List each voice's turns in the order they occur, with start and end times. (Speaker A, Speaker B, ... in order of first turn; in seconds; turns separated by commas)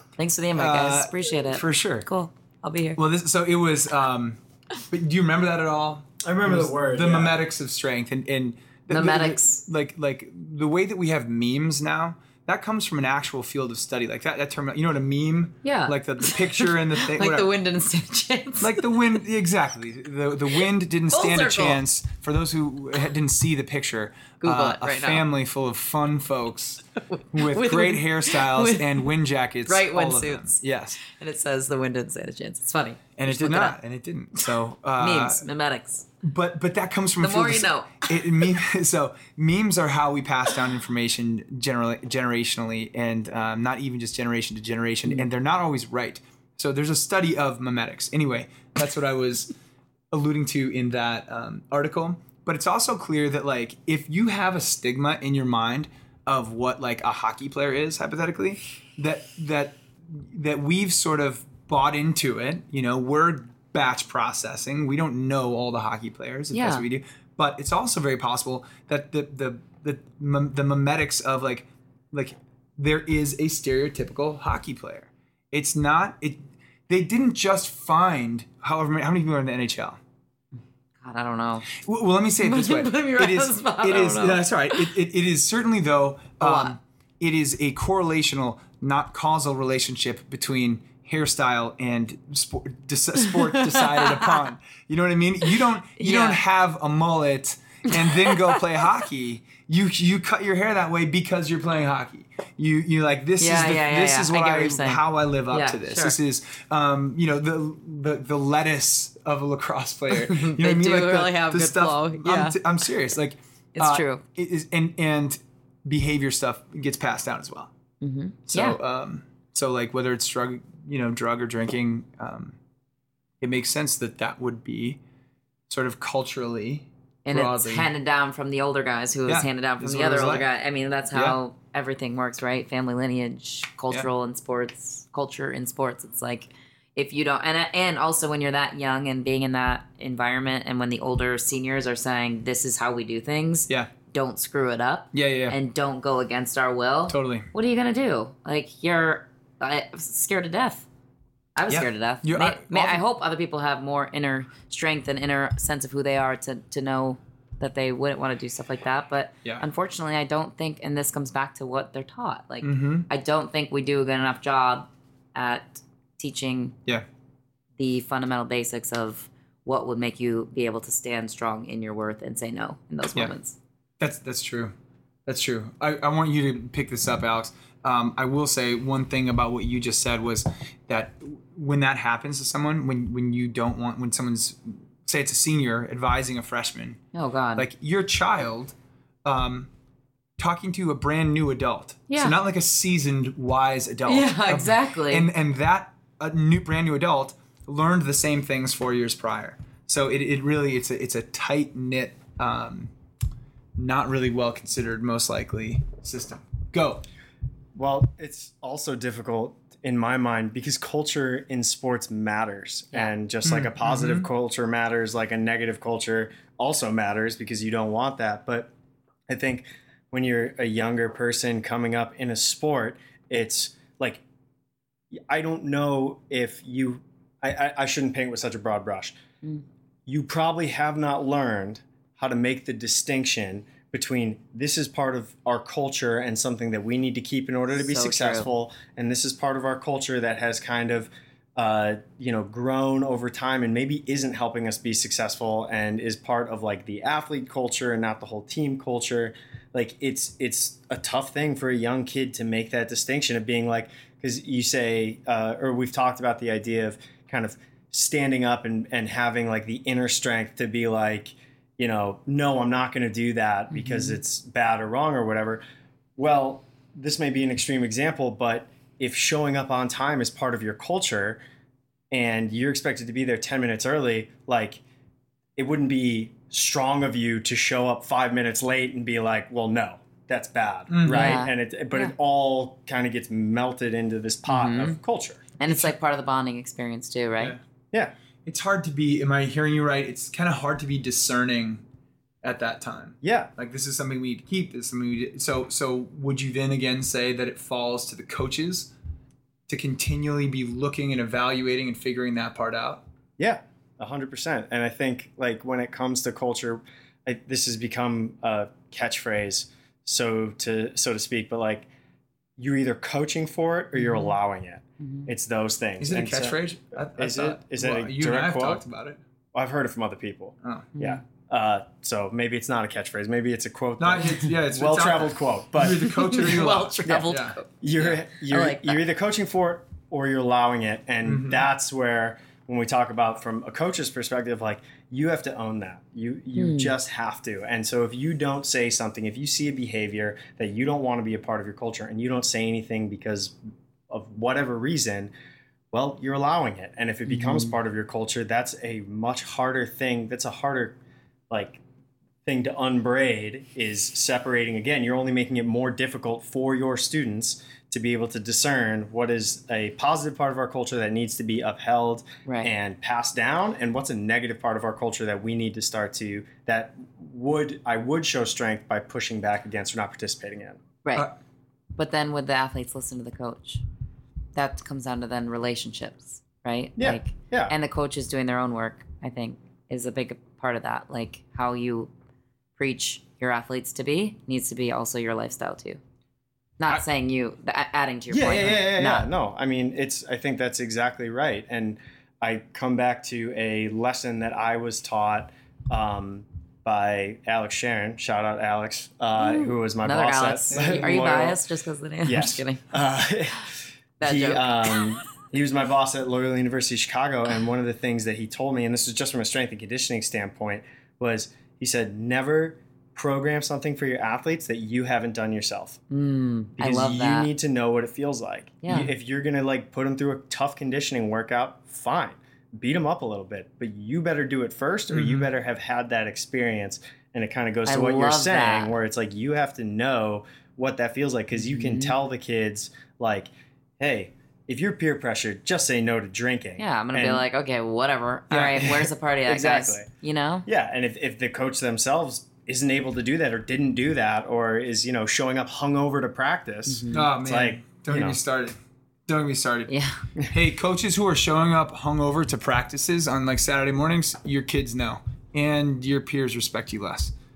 Speaker A: 0.2-3.0, Speaker B: 0.5-2.1, Speaker B: 3.0-17.5, Speaker C: 6.2-7.3, Speaker A: 8.9-9.6, Speaker A: 15.6-19.0, Speaker B: 18.6-31.0, Speaker A: 21.1-21.8, Speaker A: 24.4-25.2, Speaker A: 27.1-29.1, Speaker A: 29.6-33.8, Speaker B: 33.2-35.4, Speaker A: 34.4-36.1, Speaker B: 36.2-49.5, Speaker A: 37.2-38.5, Speaker B: 50.1-80.0, Speaker A: 66.5-66.8, Speaker A: 81.0-81.7, Speaker B: 81.7-117.7, Speaker A: 82.4-84.9, Speaker A: 86.4-86.8, Speaker A: 93.3-94.3, Speaker A: 96.0-96.4, Speaker A: 97.9-98.6, Speaker A: 103.4-106.1, Speaker A: 110.1-112.6, Speaker A: 113.7-114.2, Speaker A: 118.0-118.8, Speaker B: 118.5-122.6, Speaker B: 123.4-125.0, Speaker B: 125.7-127.9, Speaker A: 127.2-150.8, Speaker B: 129.3-130.5, Speaker B: 131.1-131.4, Speaker B: 145.1-145.6, Speaker B: 147.1-147.5, Speaker A: 151.6-166.8, Speaker B: 151.7-153.0, Speaker B: 162.6-163.1, Speaker A: 167.8-173.6, Speaker B: 174.0-174.7, Speaker B: 175.2-187.0, Speaker A: 187.1-187.6, Speaker B: 187.6-189.7, Speaker B: 190.4-202.9, Speaker A: 192.1-192.3, Speaker A: 194.1-195.3, Speaker B: 203.8-207.0, Speaker C: 207.8-218.7, Speaker B: 213.4-214.3, Speaker C: 219.3-224.2, Speaker C: 225.1-229.2, Speaker C: 230.1-265.6, Speaker A: 237.8-238.5, Speaker A: 263.7-264.2, Speaker C: 266.2-271.4, Speaker C: 272.1-274.8, Speaker C: 275.6-285.6, Speaker B: 280.9-281.4, Speaker A: 281.0-282.1, Speaker A: 284.4-285.0, Speaker A: 285.6-287.6, Speaker B: 288.4-291.8, Speaker B: 292.4-298.9, Speaker C: 293.2-293.5, Speaker B: 299.7-303.0, Speaker C: 303.4-311.9, Speaker C: 312.6-316.6, Speaker A: 313.9-314.3, Speaker A: 315.0-315.3, Speaker B: 316.0-319.2, Speaker C: 317.2-318.8, Speaker C: 319.5-326.5, Speaker B: 320.6-320.9, Speaker A: 320.9-321.2, Speaker B: 324.0-327.6, Speaker A: 326.1-329.0, Speaker C: 327.8-343.6, Speaker B: 331.2-331.6, Speaker A: 336.6-336.9, Speaker C: 344.1-345.3, Speaker C: 345.9-351.0, Speaker A: 347.2-347.7, Speaker C: 351.5-351.8, Speaker C: 352.4-370.8, Speaker A: 362.4-362.7, Speaker A: 371.9-373.8, Speaker A: 374.5-382.1, Speaker C: 377.0-377.7, Speaker A: 382.8-386.0, Speaker A: 386.8-389.3, Speaker C: 388.3-401.6, Speaker A: 399.4-403.0, Speaker B: 400.7-401.1, Speaker C: 402.2-416.0, Speaker A: 404.2-405.1, Speaker A: 416.1-417.5, Speaker C: 416.8-437.4, Speaker A: 418.8-419.1, Speaker B: 425.1-425.5, Speaker A: 427.9-428.9, Speaker A: 431.5-432.1, Speaker A: 436.8-440.6, Speaker C: 438.5-440.1, Speaker C: 440.7-448.4, Speaker A: 446.9-447.3, Speaker B: 447.1-448.8, Speaker B: 449.3-449.9, Speaker A: 449.9-450.2, Speaker B: 450.5-457.3